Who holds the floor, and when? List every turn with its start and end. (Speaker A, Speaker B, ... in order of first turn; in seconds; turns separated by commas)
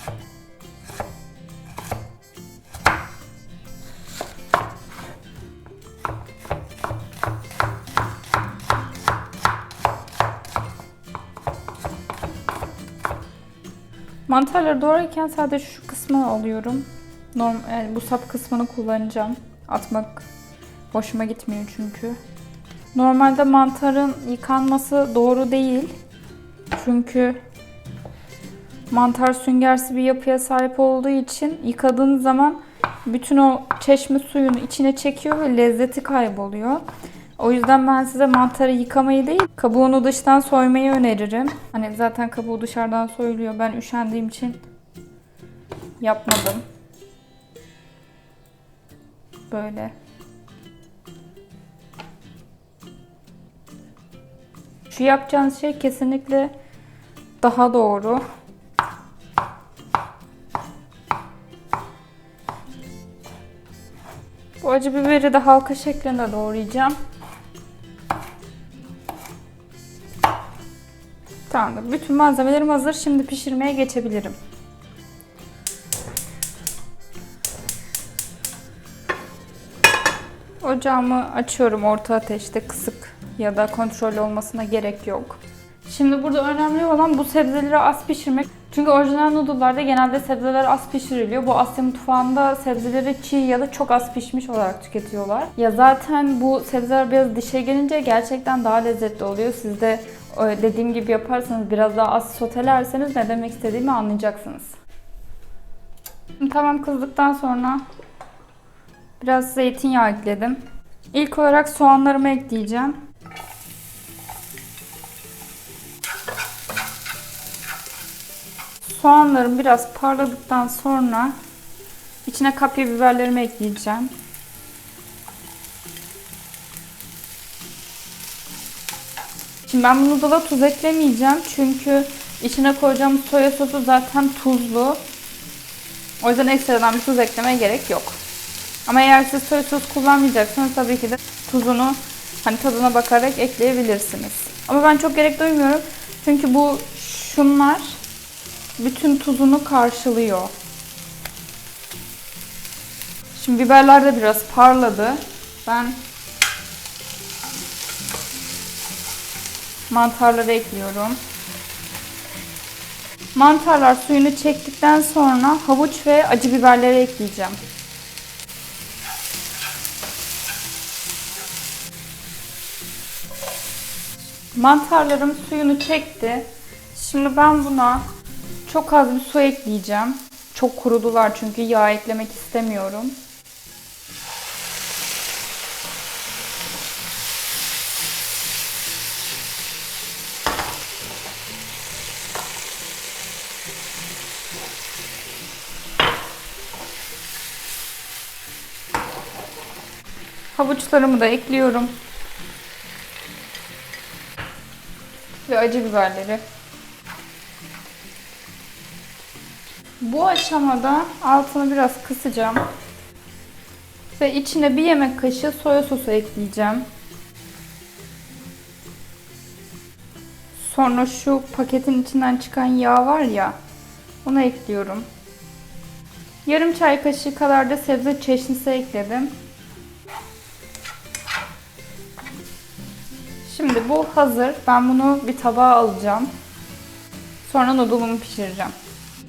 Speaker A: 14.3-20.2, Speaker A: 20.9-22.2, Speaker A: 22.9-25.9, Speaker A: 26.7-27.4, Speaker A: 28.9-36.8, Speaker A: 37.4-44.6, Speaker A: 46.0-46.6, Speaker A: 49.5-49.9, Speaker A: 54.9-56.5, Speaker A: 57.4-58.2, Speaker A: 64.6-67.0, Speaker A: 71.5-74.4, Speaker A: 80.6-104.8, Speaker A: 106.4-107.8, Speaker A: 109.2-113.0, Speaker A: 118.8-121.3, Speaker A: 122.2-124.1, Speaker A: 129.6-135.0, Speaker A: 136.2-138.2, Speaker A: 138.8-148.0, Speaker A: 148.8-150.5, Speaker A: 153.3-156.0, Speaker A: 159.9-161.2, Speaker A: 163.3-167.6, Speaker A: 174.5-178.1, Speaker A: 178.6-183.2, Speaker A: 200.5-201.9, Speaker A: 205.4-206.4, Speaker A: 210.0-212.6, Speaker A: 214.2-216.9, Speaker A: 220.6-223.6, Speaker A: 224.2-225.1, Speaker A: 226.4-229.3, Speaker A: 233.4-236.3, Speaker A: 237.4-238.7